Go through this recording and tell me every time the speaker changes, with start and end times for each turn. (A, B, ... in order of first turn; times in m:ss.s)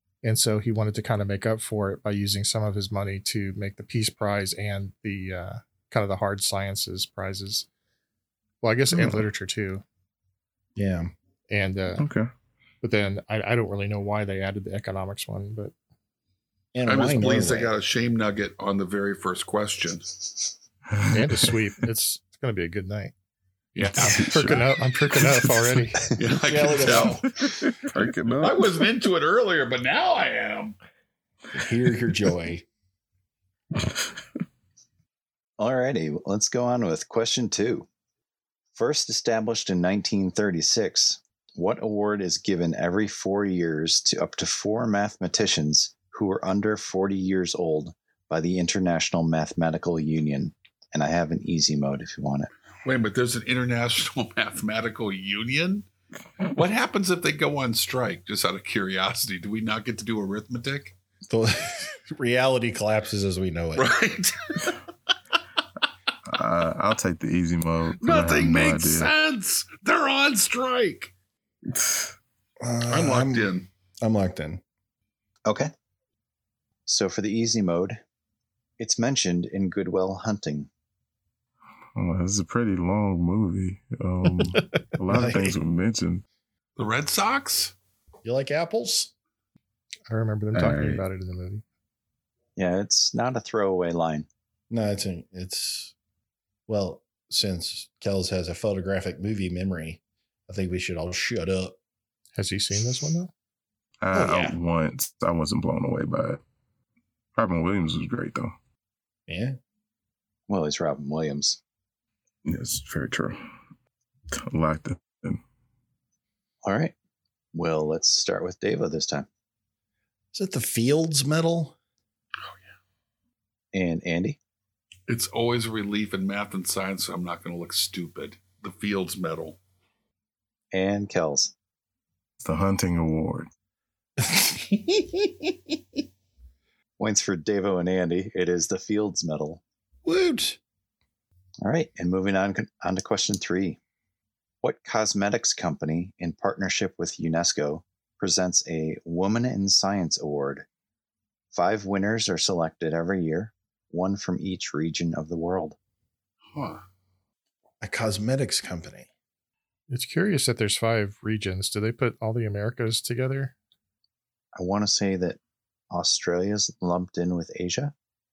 0:00.2-0:07.7 A
0:08.6-0:09.8 A
0:08.9-0:09.3 B
0:10.8-0:11.1 C
0:11.5-0:12.0 A
0:12.0-0:12.3 B
0:12.8-0:15.7 A
0:16.7-0:17.7 C
0:16.9-0:20.2 D
0:20.9-0:21.6 B
0:21.1-0:23.1 A
0:23.8-0:24.3 D
0:23.8-0:25.5 B
0:24.0-0:26.0 A
0:26.2-0:27.6 D
0:26.5-0:27.2 C
0:27.4-0:28.9 B
0:28.4-0:30.8 D
0:31.6-0:32.6 C
0:35.6-0:37.9 E
0:38.8-0:52.5 E
0:52.8-0:55.9 D
0:56.5-1:01.0 D
1:01.3-1:03.9 C
1:03.8-1:04.8 D
1:06.3-1:09.1 B
1:08.0-1:11.1 D
1:11.7-1:12.2 B
1:12.6-1:14.6 C
1:12.9-1:13.7 D
1:15.5-1:15.7 E
1:16.9-1:18.0 E
1:18.8-1:20.7 E
1:22.0-1:26.2 B
1:25.1-1:25.6 C
1:26.8-1:27.7 D
1:28.2-1:29.1 C
1:30.1-1:31.6 A
1:30.5-1:31.0 B
1:32.6-1:34.3 E
1:34.7-1:35.9 C
1:36.7-1:41.8 C
1:42.4-1:43.3 A
1:44.0-1:46.4 B
1:44.1-1:44.6 C
1:47.4-1:48.5 B
1:49.3-1:49.6 C
1:50.5-1:51.6 E
1:52.4-1:53.4 B
1:54.3-1:55.4 B
1:56.6-1:57.0 E
1:57.5-1:59.3 E
2:00.3-2:01.8 C
2:03.7-2:04.4 E
2:05.1-2:09.6 D
2:10.7-2:11.5 E
2:12.4-2:13.5 B
2:14.2-2:15.6 C
2:17.0-2:19.6 E
2:20.0-2:20.6 C
2:21.6-2:23.8 E
2:24.6-2:30.7 E
2:31.5-2:35.8 E
2:36.5-2:36.8 D
2:37.8-2:39.1 C
2:39.9-2:43.5 A
2:44.6-2:45.4 E
2:45.9-2:47.9 E